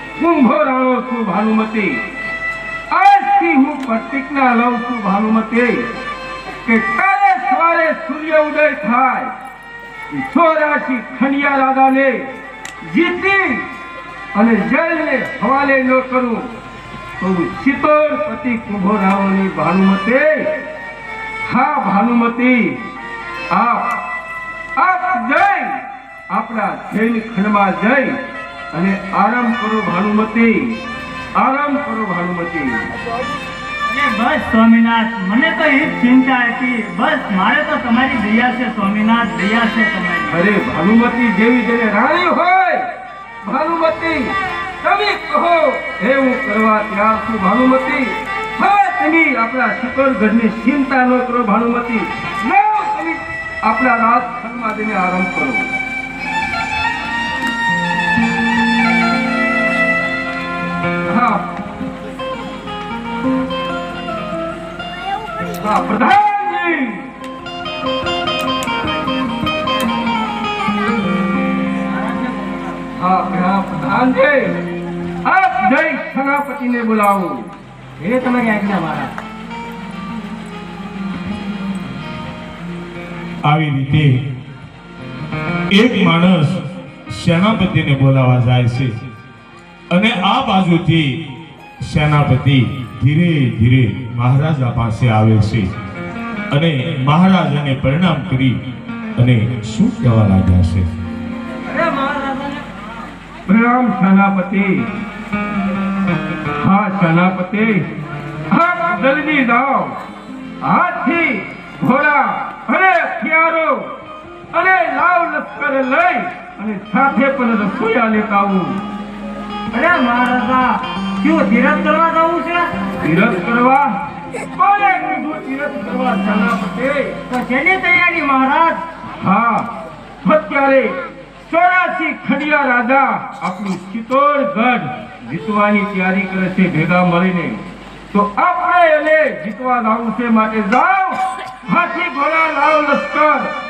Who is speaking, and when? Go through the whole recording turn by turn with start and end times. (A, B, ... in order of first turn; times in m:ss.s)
0:00.2-0:02.0 A
0:02.9-0:05.9 A
0:06.6-0:09.3 A
0:10.1-0:12.2 A
0:12.8-0:13.6 A
0:14.4-0:16.5 A
0:17.2-0:20.5 A
0:21.5-0:22.8 A
0:23.5-0:24.0 A
0:24.8-0:25.8 A
0:26.3-0:28.2 A
0:28.7-0:30.7 A
0:31.4-0:32.9 A
0:33.9-0:40.4 B
0:40.2-0:42.8 A
0:43.4-0:55.7 A
1:01.1-1:01.4 A
1:05.6-1:07.1 A
1:11.9-1:12.7 B
1:13.0-1:14.5 A
1:15.3-1:17.5 A
1:18.3-1:19.0 B
1:23.4-1:24.1 C
1:25.7-1:26.6 C
1:27.1-1:29.0 C
1:29.9-1:31.2 C
1:31.8-1:35.7 C
1:36.5-1:38.6 C
1:39.2-1:40.9 C
1:41.7-1:42.8 B
1:43.5-1:44.8 A
1:46.5-1:47.9 A
1:48.5-1:50.0 A
1:50.6-1:53.9 A
1:54.5-1:58.8 A
1:59.7-2:02.7 B
2:03.0-2:03.9 A
2:04.5-2:07.2 A
2:07.3-2:08.8 B
2:09.1-2:09.7 A
2:10.2-2:10.9 A
2:11.4-2:23.5 A